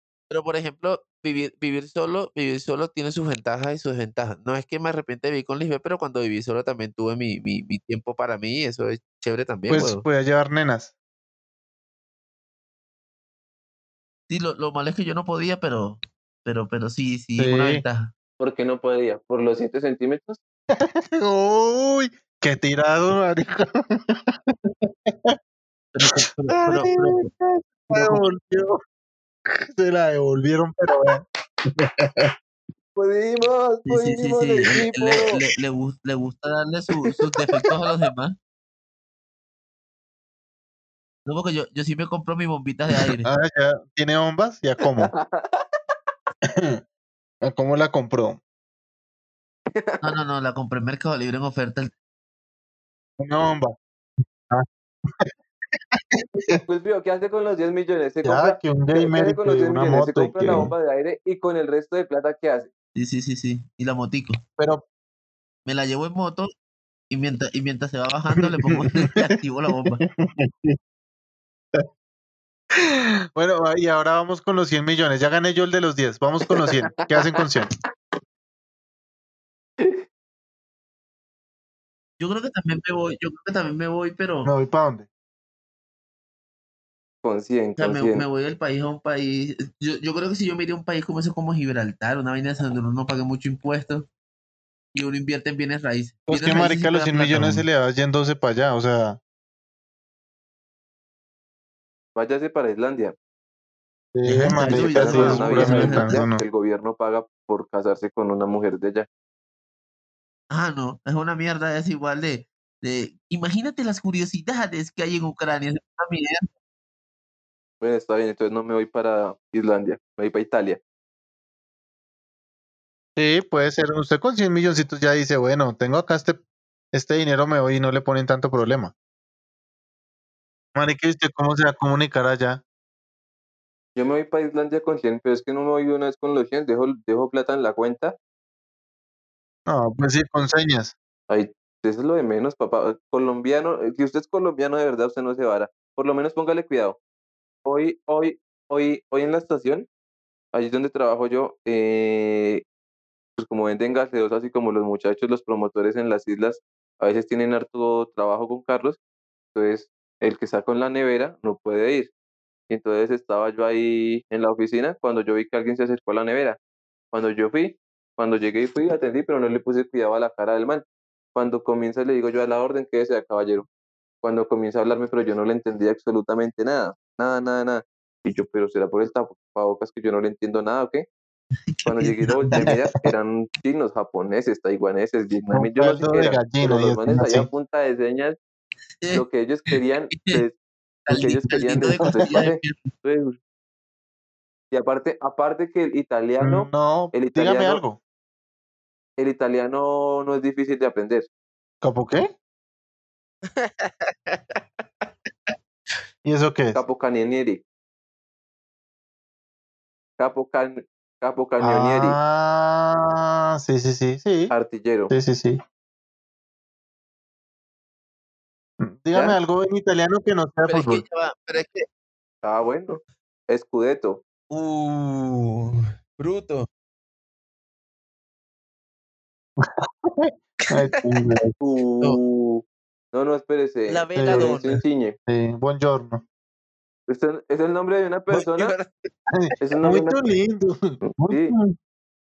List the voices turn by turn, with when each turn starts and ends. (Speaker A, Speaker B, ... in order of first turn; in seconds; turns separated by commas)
Speaker A: 0.3-10.0, Speaker B: 9.7-10.9, Speaker A: 14.3-18.1, Speaker B: 17.4-17.8, Speaker C: 18.4-20.4, Speaker B: 20.7-25.4, Speaker A: 25.9-27.3, Speaker B: 26.1-28.8, Speaker A: 27.9-28.2, Speaker B: 29.5-32.3, Speaker C: 33.0-35.4, Speaker A: 33.9-38.4, Speaker A: 41.3-43.3, Speaker B: 43.2-45.1, Speaker C: 45.0-45.6, Speaker B: 46.5-46.8, Speaker B: 47.4-48.4, Speaker C: 49.7-50.1, Speaker A: 50.0-51.9, Speaker B: 53.2-53.8, Speaker B: 54.5-55.3, Speaker B: 55.9-56.6, Speaker C: 56.6-62.7, Speaker B: 58.2-60.7, Speaker A: 63.0-64.4, Speaker B: 64.6-64.8, Speaker A: 65.7-66.5, Speaker A: 67.1-70.0, Speaker B: 68.4-69.3, Speaker B: 70.0-70.8, Speaker B: 72.8-77.7, Speaker C: 76.6-77.1, Speaker A: 82.2-84.5, Speaker B: 84.5-85.1, Speaker C: 87.2-88.2, Speaker A: 87.8-94.1, Speaker A: 95.0-97.7, Speaker B: 96.3-99.2, Speaker C: 102.2-103.2, Speaker B: 104.1-106.4, Speaker A: 104.3-106.2, Speaker C: 104.6-109.1, Speaker A: 110.5-116.5, Speaker C: 117.8-120.8, Speaker B: 123.2-126.4, Speaker B: 126.9-128.9, Speaker B: 130.8-132.6, Speaker C: 134.0-138.2, Speaker B: 139.7-140.9, Speaker C: 141.3-147.0, Speaker C: 147.7-149.9, Speaker C: 150.5-152.6, Speaker C: 153.4-159.0, Speaker C: 159.5-162.1, Speaker C: 162.7-166.6, Speaker C: 167.1-173.7, Speaker C: 174.2-181.1, Speaker A: 181.7-182.7, Speaker C: 181.8-188.4, Speaker B: 185.5-187.5, Speaker A: 189.0-190.4, Speaker C: 189.1-190.6, Speaker A: 191.1-192.9, Speaker C: 191.1-193.4, Speaker C: 194.7-197.8, Speaker B: 196.4-198.0, Speaker C: 199.2-201.3, Speaker B: 201.8-202.3, Speaker A: 203.5-205.5, Speaker B: 206.2-206.8, Speaker C: 206.7-207.6, Speaker C: 210.2-212.2, Speaker B: 211.6-214.5, Speaker C: 214.5-215.1, Speaker B: 215.1-215.6, Speaker B: 218.8-221.0, Speaker A: 220.7-221.9, Speaker C: 222.4-224.2, Speaker A: 224.5-226.7, Speaker B: 229.6-231.5, Speaker C: 231.6-235.2, Speaker A: 233.9-234.8, Speaker B: 234.2-234.6, Speaker B: 235.3-236.2, Speaker C: 237.1-238.7, Speaker A: 238.3-239.1, Speaker B: 239.3-241.8, Speaker C: 239.6-240.2, Speaker C: 241.0-241.6